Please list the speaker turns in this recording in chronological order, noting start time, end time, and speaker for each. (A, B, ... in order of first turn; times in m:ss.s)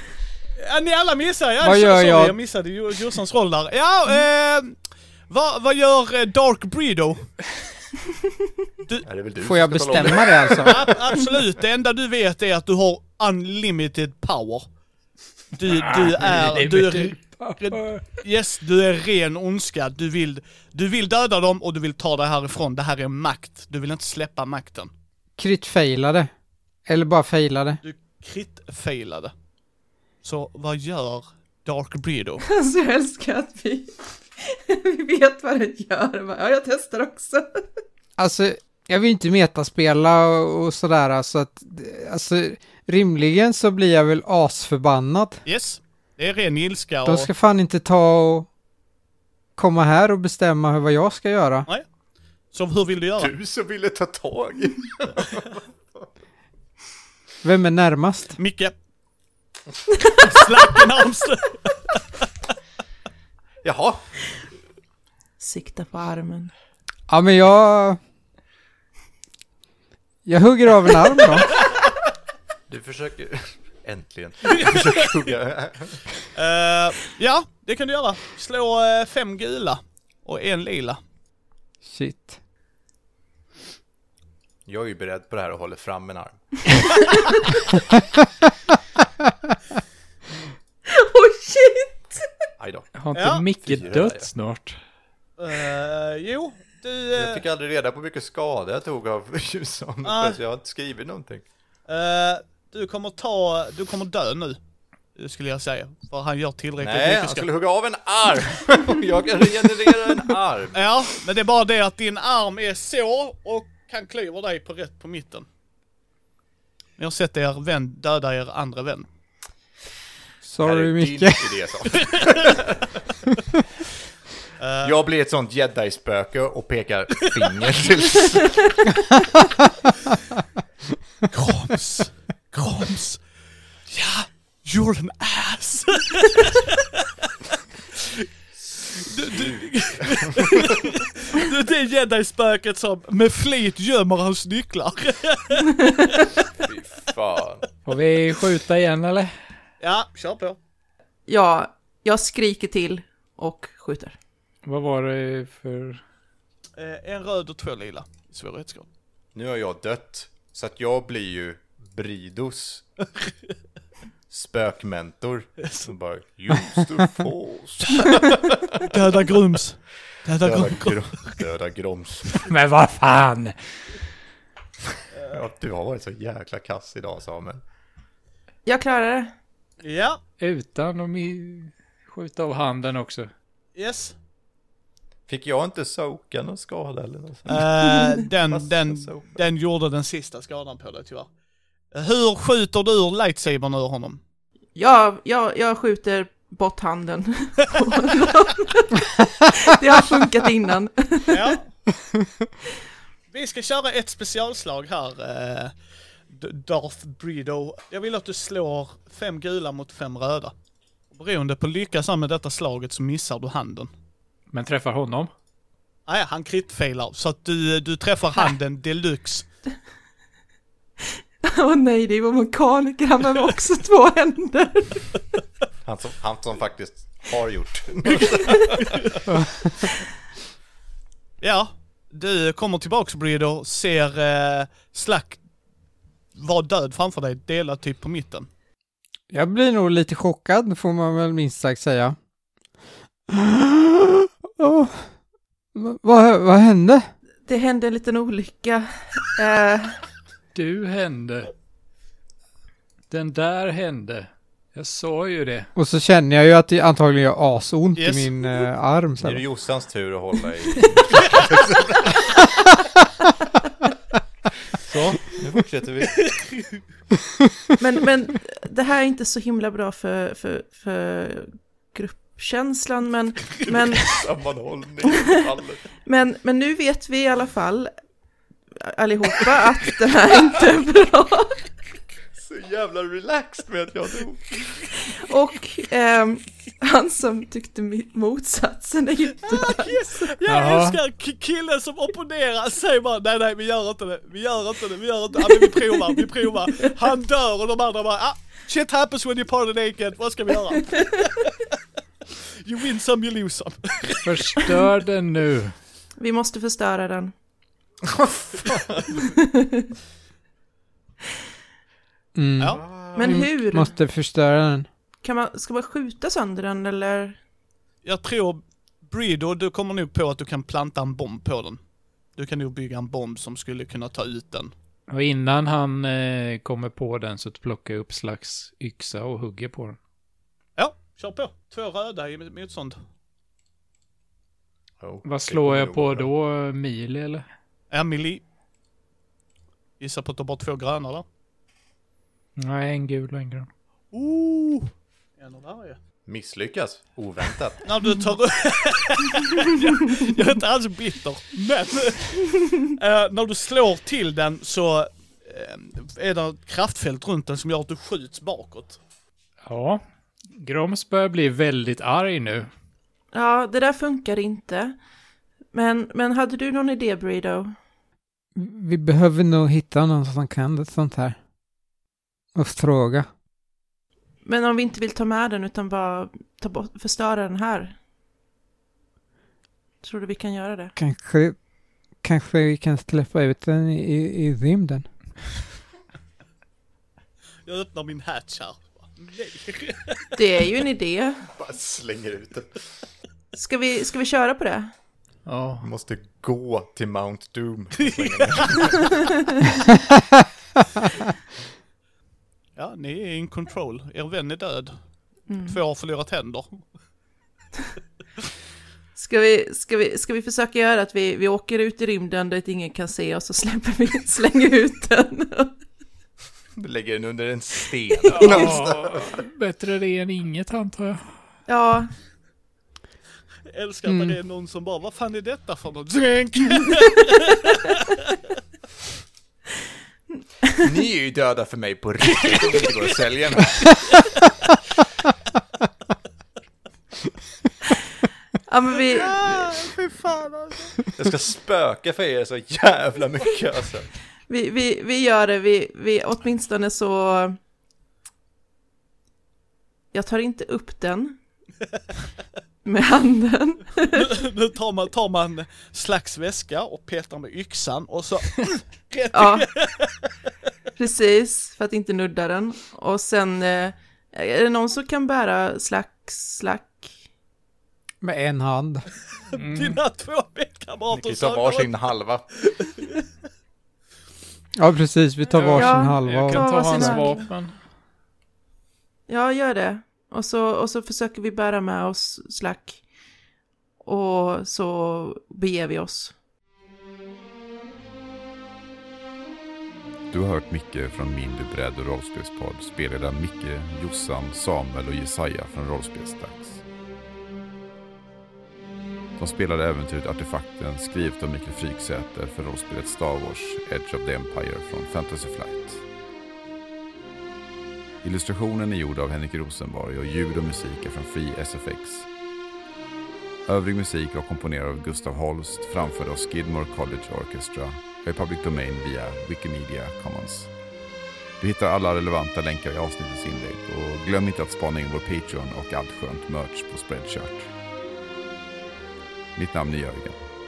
0:00.6-0:04.8 A
0:01.6-0:02.4 B
0:05.3-0:07.3 A
0:09.0-0:11.4 C
0:09.4-0:10.8 B
0:10.7-0:14.7 A
0:15.6-0:24.9 A
0:15.6-0:18.2 D
0:25.4-0:26.3 B
0:26.9-0:27.8 B
0:27.8-0:29.3 A
0:30.2-0:32.4 A
0:32.4-0:37.7 E
0:38.2-0:45.4 B
0:45.5-0:47.3 A
0:47.0-0:48.5 B
0:49.6-0:51.7 B
0:52.5-0:53.3 A
0:53.2-0:56.0 C
0:57.4-0:58.4 B
0:58.4-0:58.7 A
1:00.2-1:02.0 A
1:03.6-1:04.0 C
1:05.4-1:06.5 E
1:07.1-1:08.0 B
1:10.2-1:11.5 B
1:12.7-1:16.0 C
1:16.4-1:21.0 A
1:21.8-1:22.4 B
1:24.7-1:26.4 C
1:30.9-1:32.3 E
1:32.6-1:32.9 C
1:33.0-1:34.8 D
1:33.1-1:33.4 A
1:33.6-1:34.3 C
1:35.4-1:37.4 A
1:37.2-1:41.5 C
1:40.0-1:40.4 A
1:41.9-1:44.6 A
1:45.2-1:47.5 A
1:46.8-1:50.9 C
1:50.7-1:55.5 A
1:57.0-1:59.1 A
2:00.4-2:01.6 B
2:00.6-2:02.9 C
2:04.6-2:05.0 A
2:04.8-2:08.8 C
2:11.3-2:13.2 A
2:13.9-2:17.0 A
2:17.9-2:25.8 A
2:19.3-2:20.7 C
2:26.5-2:27.7 C
2:27.9-2:29.3 D
2:29.8-2:30.6 A
2:31.3-2:34.2 E
2:34.6-2:36.0 D
2:36.8-2:38.9 A
2:39.4-2:42.8 C
2:44.3-2:49.0 C
2:45.6-2:45.9 A
2:48.8-2:51.4 A
2:50.4-2:52.4 C
2:52.5-2:53.6 D
2:55.3-2:57.6 C
2:58.7-2:59.3 E
2:59.8-3:00.2 A
3:00.4-3:03.3 D
3:03.8-3:04.2 A
3:05.3-3:07.7 C
3:07.5-3:11.3 A
3:07.8-3:08.1 E
3:08.5-3:09.3 C
3:11.9-3:14.2 A
3:14.8-3:21.6 E
3:21.3-3:21.7 A
3:23.3-3:25.7 A
3:26.3-3:30.5 A
3:31.1-3:33.9 A
3:34.5-3:35.3 D
3:36.1-3:39.5 A
3:41.4-3:45.2 E
3:45.8-3:49.2 C
3:48.1-3:49.1 A
3:51.4-3:55.4 A
3:56.4-3:58.5 A
3:59.3-4:02.2 B
4:03.3-4:05.1 B
4:05.7-4:07.1 B
4:07.5-4:10.0 E
4:10.5-4:11.5 D
4:13.1-4:15.7 D
4:15.8-4:19.4 B
4:18.0-4:18.7 A
4:19.2-4:22.4 C
4:24.8-4:26.3 C
4:26.2-4:26.8 A
4:27.8-4:34.2 E
4:34.0-4:35.8 C
4:36.1-4:37.9 E
4:38.8-4:41.7 E
4:42.4-4:44.6 C
4:45.2-4:50.3 E
4:49.5-5:01.7 A
4:50.5-4:51.0 D
4:55.5-4:55.8 E
5:02.6-5:04.3 A
5:04.2-5:05.8 D
5:06.2-5:07.3 E
5:08.1-5:09.0 C
5:09.1-5:09.9 E
5:12.4-5:14.9 B
5:12.7-5:13.4 C
5:13.2-5:13.9 E
5:15.2-5:17.4 E
5:18.0-5:21.8 A
5:22.4-5:24.7 A
5:25.1-5:30.0 D
5:30.8-5:33.0 A
5:35.0-5:36.3 C
5:35.2-5:37.4 D
5:37.9-5:38.4 A
5:40.0-5:41.2 A
5:42.6-5:43.7 D
5:44.1-5:46.0 A
5:46.3-5:47.8 C
5:47.8-5:59.0 A
5:59.6-6:00.0 D
6:00.6-6:02.7 D
6:03.3-6:05.0 E
6:05.7-6:07.8 E
6:08.6-6:11.4 B
6:12.6-6:13.3 B
6:14.4-6:18.0 E
6:20.0-6:20.9 E
6:21.0-6:21.6 B
6:22.2-6:25.1 B
6:27.6-6:30.4 A
6:30.4-6:31.5 E
6:31.5-6:32.7 C
6:33.6-6:34.9 E
6:35.4-6:35.9 D
6:35.8-6:39.2 C
6:38.0-6:38.9 A
6:42.8-6:45.0 A
6:45.5-6:45.8 E
6:45.7-6:46.8 A
6:49.2-6:55.8 E
6:56.8-6:59.4 C
6:58.3-7:01.3 D
7:01.7-7:02.1 E
7:03.7-7:08.3 A
7:04.1-7:04.4 B
7:10.8-7:14.0 C
7:18.7-7:19.7 E
7:19.1-7:21.1 A
7:21.2-7:24.1 C
7:24.5-7:27.6 E
7:30.1-7:31.4 E
7:32.8-7:34.3 E
7:34.1-7:40.3 A
7:39.3-7:39.8 E
7:41.0-7:47.1 E
7:48.2-7:49.1 B
7:49.5-7:52.0 A
7:49.5-7:50.0 D
7:51.1-7:52.5 C
7:52.6-7:53.1 A
7:54.8-7:57.2 B
7:55.5-7:57.8 D
7:55.8-7:57.5 E
7:59.3-8:03.0 E
8:04.0-8:06.4 E
8:10.3-8:16.8 F
8:19.4-8:26.0 F
8:28.2-8:32.3 F
8:33.7-8:40.7 F
8:41.6-8:47.7 F
8:49.6-8:50.4 F